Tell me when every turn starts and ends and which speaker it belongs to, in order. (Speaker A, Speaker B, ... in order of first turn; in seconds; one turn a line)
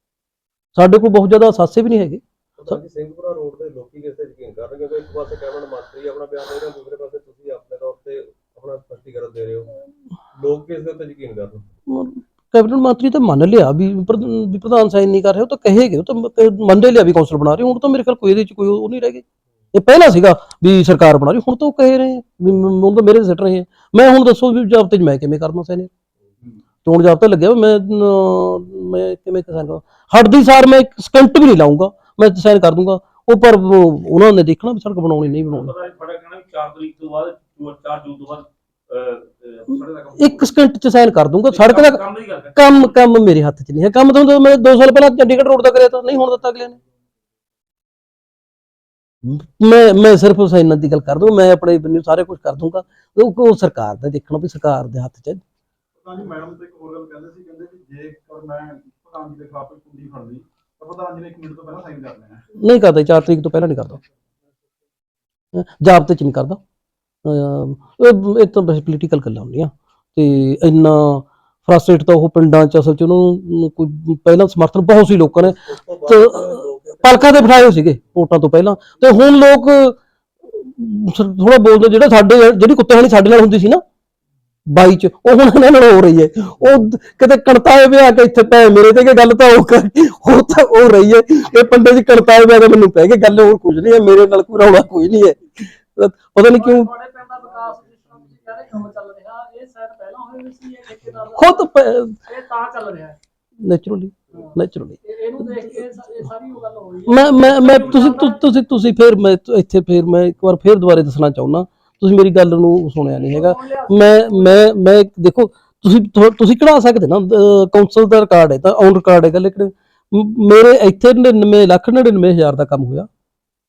Speaker A: 0.8-2.8
Speaker B: 2.6-9.8
Speaker B: 10.3-11.6
Speaker A: 11.9-25.9
Speaker A: 26.8-35.7
Speaker C: 35.5-40.5
Speaker A: 40.1-42.0
Speaker C: 41.5-42.9
Speaker A: 42.5-46.8
Speaker A: 49.2-55.4
Speaker D: 56.0-62.4
Speaker A: 62.5-64.0
Speaker A: 65.5-66.6
Speaker A: 67.2-83.8
Speaker B: 75.4-77.5
Speaker A: 84.7-96.9
Speaker E: 96.5-101.7
Speaker A: 101.3-102.1
Speaker E: 102.2-103.2
Speaker A: 103.6-105.8
Speaker E: 104.3-108.4
Speaker A: 107.1-123.1
Speaker E: 113.2-114.7